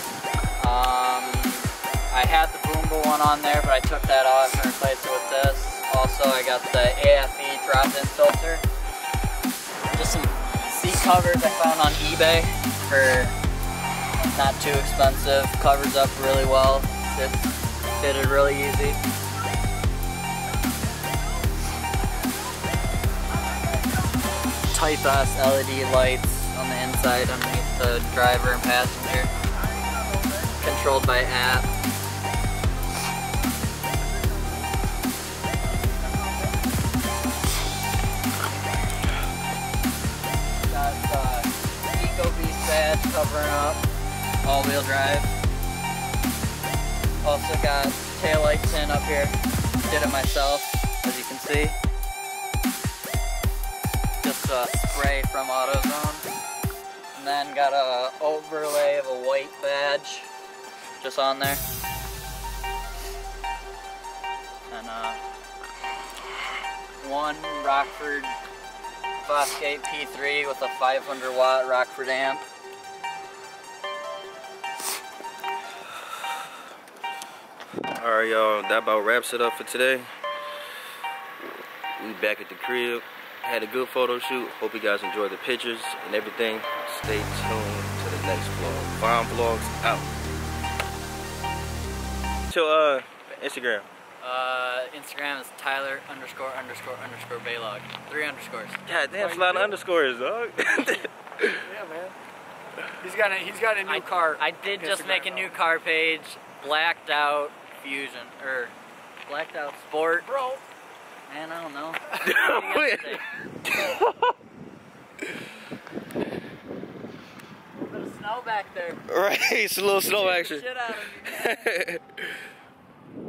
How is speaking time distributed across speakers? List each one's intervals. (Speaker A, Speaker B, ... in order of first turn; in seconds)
Speaker A: 0.6-8.6, 9.9-13.4, 14.2-19.0, 24.7-29.3, 30.6-31.7, 40.6-43.8, 44.4-45.4, 47.2-51.8, 54.2-56.3, 57.1-60.3, 61.0-61.6, 64.7-65.2, 67.0-68.3, 69.2-72.4, 94.2-98.8, 103.8-108.7, 109.2-110.3, 111.3-113.2, 117.7-119.0, 120.1-121.6
Speaker B: 78.0-80.1, 82.0-90.1, 92.5-93.9, 98.8-101.6, 112.2-114.1, 119.1-122.2
Speaker C: 99.1-99.8, 101.6-102.2, 103.0-105.5, 110.3-110.6